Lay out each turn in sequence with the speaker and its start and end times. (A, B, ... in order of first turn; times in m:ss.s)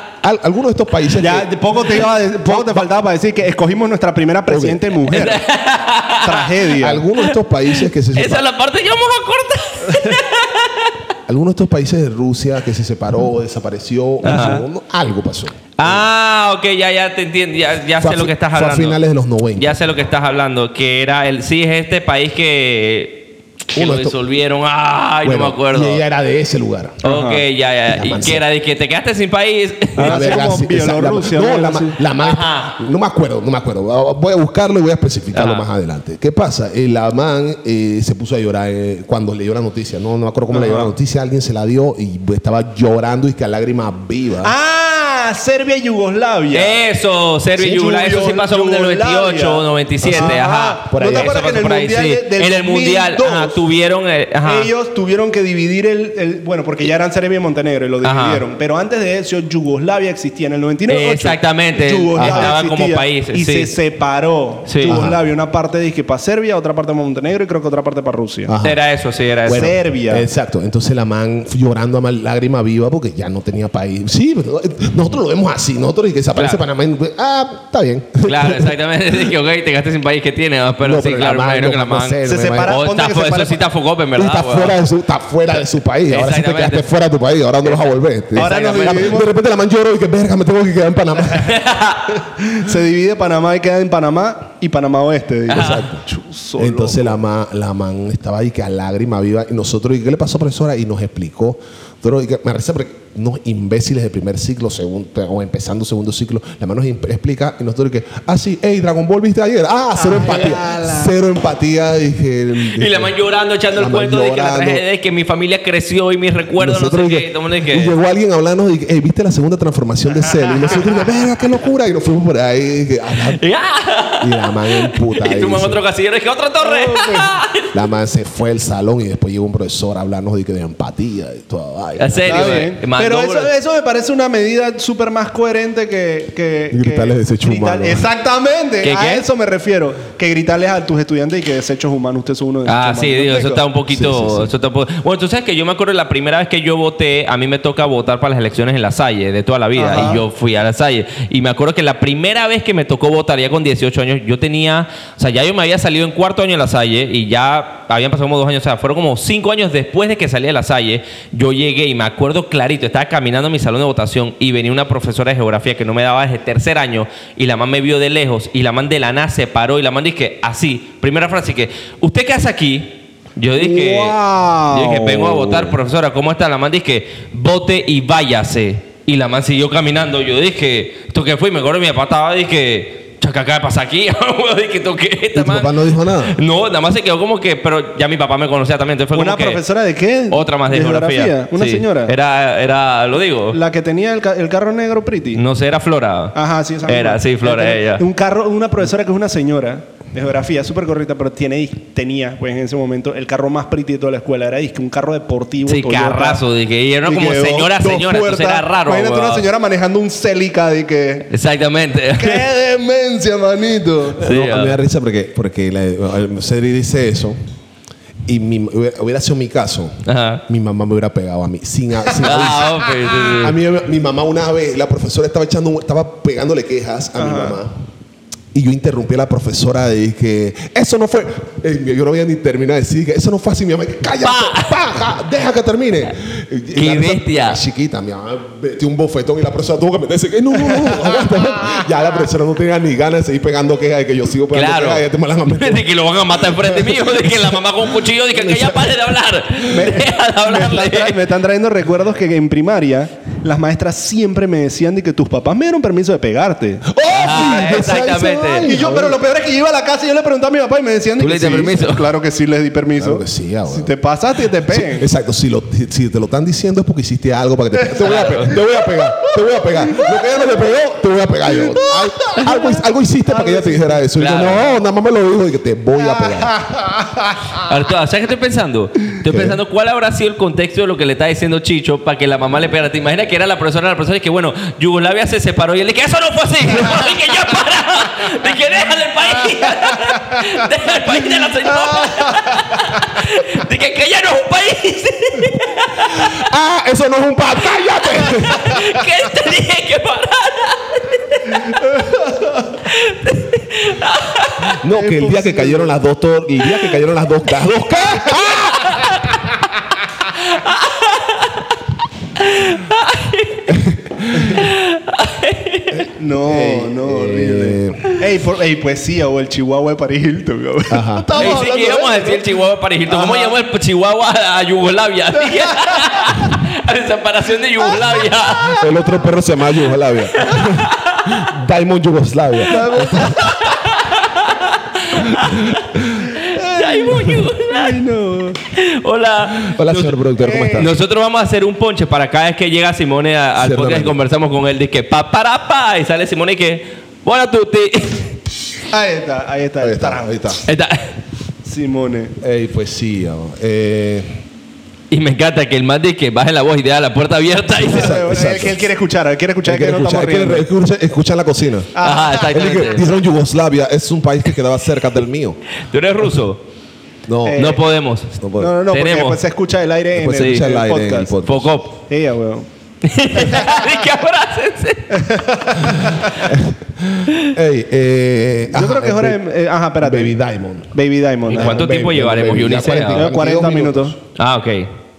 0:00.2-0:01.5 A
0:01.2-0:05.4 B
0:02.4-0:02.8 A
0:04.5-0:04.8 A
0:05.1-0:06.6 C
0:06.2-0:07.1 B
0:06.8-0:08.5 A
0:07.2-0:10.9 C
0:09.9-0:10.2 B
0:11.3-0:16.1 A
0:14.2-0:14.6 C
0:14.2-0:14.6 B
0:15.8-0:19.0 C
0:18.0-0:19.8 A
0:19.6-0:26.0 C
0:23.8-0:24.2 A
0:25.2-0:27.0 A
0:27.0-0:30.3 C
0:27.0-0:27.4 B
0:27.9-0:28.4 A
0:30.0-0:32.0 B
0:30.0-0:44.5 A
0:32.2-0:32.8 C
0:35.3-0:35.7 C
0:40.5-0:40.9 B
0:44.4-0:46.8 B
0:46.5-0:54.7 C
0:47.6-0:53.6 B
0:50.0-0:50.4 A
0:50.9-0:51.4 A
0:54.4-1:08.5 B
0:58.0-0:58.4 C
1:00.9-1:03.7 C
1:02.2-1:02.6 A
1:04.7-1:05.0 C
1:04.8-1:05.2 A
1:08.5-1:08.8 A
1:08.6-1:09.7 C
1:09.4-1:19.3 A
1:09.5-1:10.3 B
1:16.4-1:16.6 C
1:18.2-1:24.8 C
1:20.8-1:22.8 A
1:22.2-1:23.6 B
1:24.2-1:31.7 A
1:26.1-1:26.9 C
1:27.6-1:29.2 C
1:28.4-1:29.3 B
1:31.5-1:32.0 C
1:32.1-1:37.2 B
1:35.5-1:35.9 C
1:35.5-1:36.0 A
1:36.6-1:53.2 A
1:50.0-1:51.2 B
1:52.7-1:58.0 C
1:53.8-1:54.8 A
1:56.6-2:03.4 A
2:00.3-2:00.8 B
2:03.4-2:07.7 C
2:04.2-2:05.8 A
2:06.6-2:07.3 B
2:07.7-2:12.7 A
2:12.0-2:13.5 C
2:12.2-2:23.6 B
2:16.7-2:18.1 A
2:18.8-2:19.3 C
2:22.7-2:54.2 C
2:23.9-2:24.5 A
2:29.8-2:30.2 B
2:53.6-2:55.7 B
2:54.7-3:09.6 C
3:05.3-3:06.4 A
3:09.1-3:12.1 B
3:10.3-3:13.6 C
3:13.5-3:15.4 B
3:15.4-3:18.0 C
3:16.3-3:26.4 B
3:25.7-3:29.5 C
3:27.0-3:31.3 B
3:31.3-3:32.4 C
3:32.2-3:34.3 B
3:34.2-3:37.4 A
3:34.2-3:34.8 C
3:38.3-3:47.8 A
3:40.1-3:40.4 C
3:42.2-3:43.6 C
3:42.8-3:43.1 B
3:47.2-3:47.6 B
3:48.5-4:08.9 A
3:54.2-3:54.9 C
3:56.7-3:57.6 C
4:00.7-4:01.8 B
4:04.5-4:11.3 C
4:09.6-4:17.8 B
4:16.8-4:19.2 A
4:17.1-4:18.8 C
4:18.6-4:25.0 B
4:21.2-4:22.1 C
4:23.0-4:23.9 A
4:24.7-4:36.6 A
4:28.0-4:28.6 C
4:28.9-4:30.5 B
4:31.8-4:32.7 B
4:33.3-4:34.0 B
4:34.1-4:34.7 C
4:36.1-4:37.7 B
4:37.6-4:56.4 C
4:39.2-4:39.6 A
4:49.9-4:50.6 B
4:51.7-4:53.2 B
4:56.2-4:58.9 A
4:58.1-5:01.8 C
5:01.7-5:02.8 B
5:02.9-5:04.8 C
5:04.7-5:09.1 A
5:04.9-5:05.9 B
5:08.2-5:09.4 C
5:10.3-5:11.7 C
5:12.4-5:13.8 C
5:13.7-5:14.6 A
5:14.5-5:16.0 C
5:16.1-5:22.5 B
5:16.4-5:18.0 A
5:20.9-5:21.5 A
5:21.4-5:28.9 C
5:23.1-5:23.5 B
5:25.4-5:26.6 B
5:27.8-5:28.8 B
5:28.6-5:33.5 A
5:30.4-5:31.4 C
5:32.7-5:33.6 B
5:33.2-5:38.0 C
5:35.2-5:36.0 A
5:36.2-5:38.6 B
5:38.6-5:40.2 C
5:39.6-5:41.0 A
5:40.4-5:40.9 B
5:40.8-5:48.4 C
5:43.6-5:44.2 A
5:48.9-5:50.6 B
5:49.8-5:50.6 A
5:50.7-5:51.1 C
5:51.6-5:52.4 B
5:52.4-5:54.4 A
5:55.1-5:58.2 C
5:57.8-5:58.8 A
5:57.9-6:00.7 B
5:59.6-6:05.6 A
6:02.0-6:02.6 B
6:02.0-6:03.0 C
6:05.8-6:06.6 C
6:07.3-6:07.8 A
6:07.4-6:07.8 B
6:07.6-6:09.4 C
6:08.4-6:08.8 A
6:08.6-6:11.3 B
6:10.1-6:11.8 A
6:10.3-6:10.7 C
6:11.4-6:12.0 C
6:12.1-6:12.7 B
6:13.0-6:15.3 C
6:13.3-6:13.8 B
6:15.1-6:16.5 B
6:16.3-6:19.4 A
6:18.7-6:20.4 B
6:20.0-6:20.9 A
6:20.9-6:21.8 B
6:21.5-6:24.2 A
6:21.5-6:23.3 C
6:23.1-6:24.2 B
6:24.4-6:24.9 C